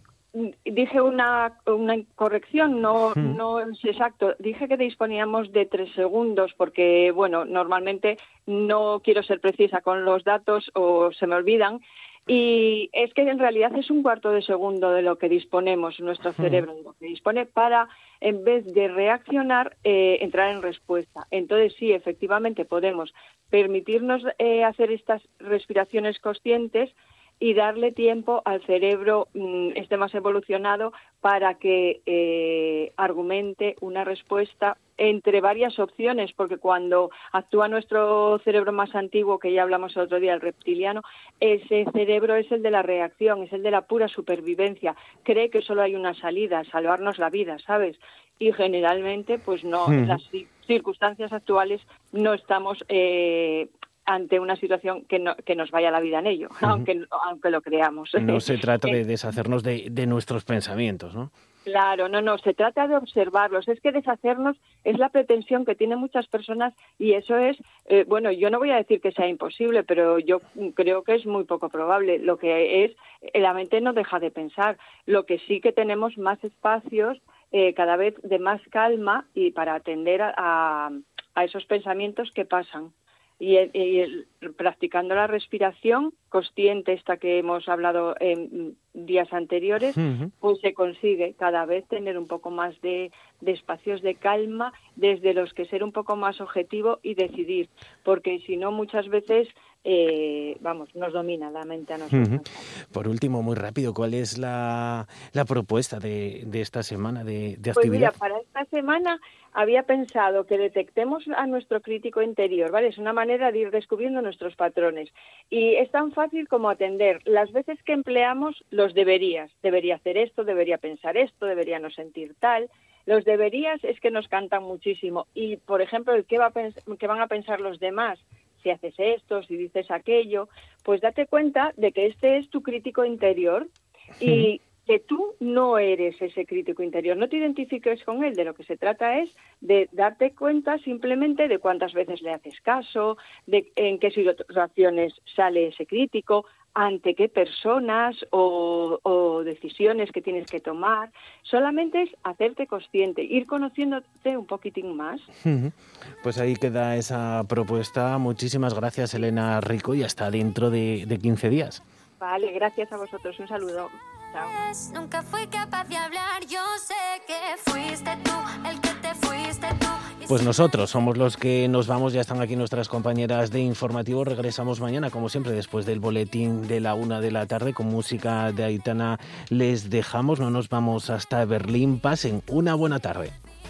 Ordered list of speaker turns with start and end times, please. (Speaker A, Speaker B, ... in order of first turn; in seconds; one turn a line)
Speaker A: 0.3-59.0
Speaker B: 3.2-3.4
Speaker B: 16.4-16.7
Speaker B: 49.9-50.2
Speaker B: 58.2-61.3
Speaker A: 61.7-102.6
Speaker B: 90.0-90.3
Speaker B: 102.1-108.1
Speaker A: 107.7-155.3
Speaker B: 155.4-161.8
Speaker A: 162.2-164.5
Speaker C: 164.5-170.7
Speaker B: 170.3-183.3